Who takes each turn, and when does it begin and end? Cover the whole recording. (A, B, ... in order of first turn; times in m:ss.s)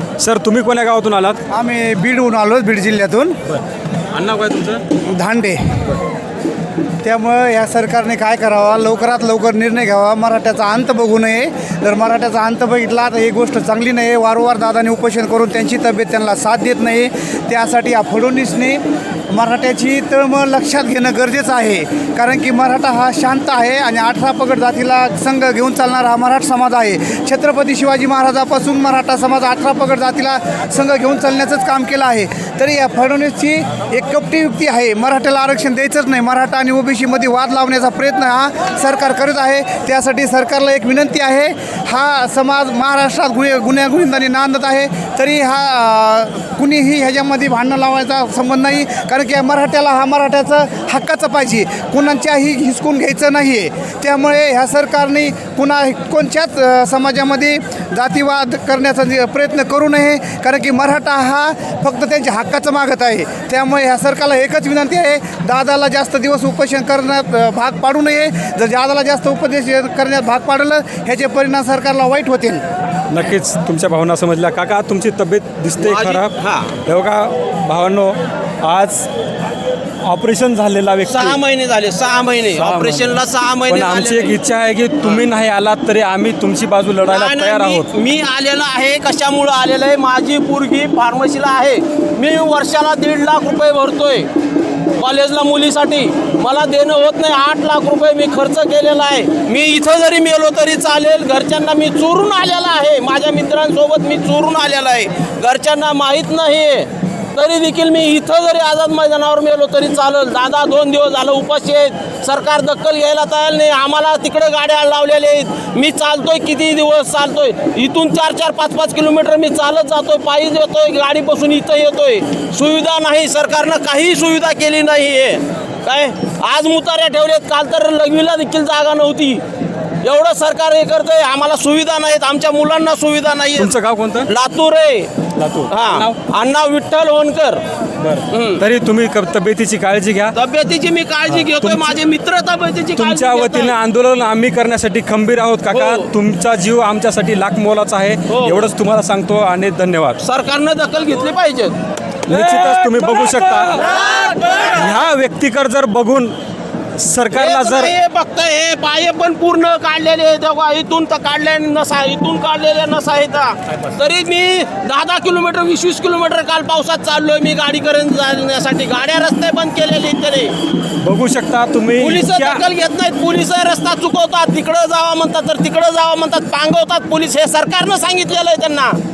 0:00.2-0:01.4 A
0:01.5-0:03.4 B
0:04.1-0:04.8 A
0:05.1-0:05.9 B
0:07.0-1:12.6 B
1:13.1-1:16.3 A
1:15.8-1:16.7 C
1:16.8-1:19.1 A
1:20.0-1:21.4 A
1:21.1-1:24.3 C
1:22.6-1:23.2 A
1:23.7-1:27.9 A
1:27.1-1:34.3 C
1:35.0-2:09.4 C
2:10.0-2:13.7 C
2:13.6-2:14.3 A
2:14.3-2:15.1 C
2:15.4-2:16.2 A
2:15.7-2:17.6 C
2:18.0-2:20.3 A
2:18.3-2:18.6 C
2:20.4-2:23.7 C
2:21.3-2:22.0 A
2:23.0-2:30.2 A
2:25.7-2:26.1 C
2:28.3-2:28.7 C
2:30.2-2:31.8 C
2:32.3-2:33.9 A
2:32.6-2:34.8 C
2:34.7-2:36.3 A
2:37.0-2:37.9 A
2:37.3-2:50.5 C
2:51.0-2:52.6 A
2:52.0-2:59.0 C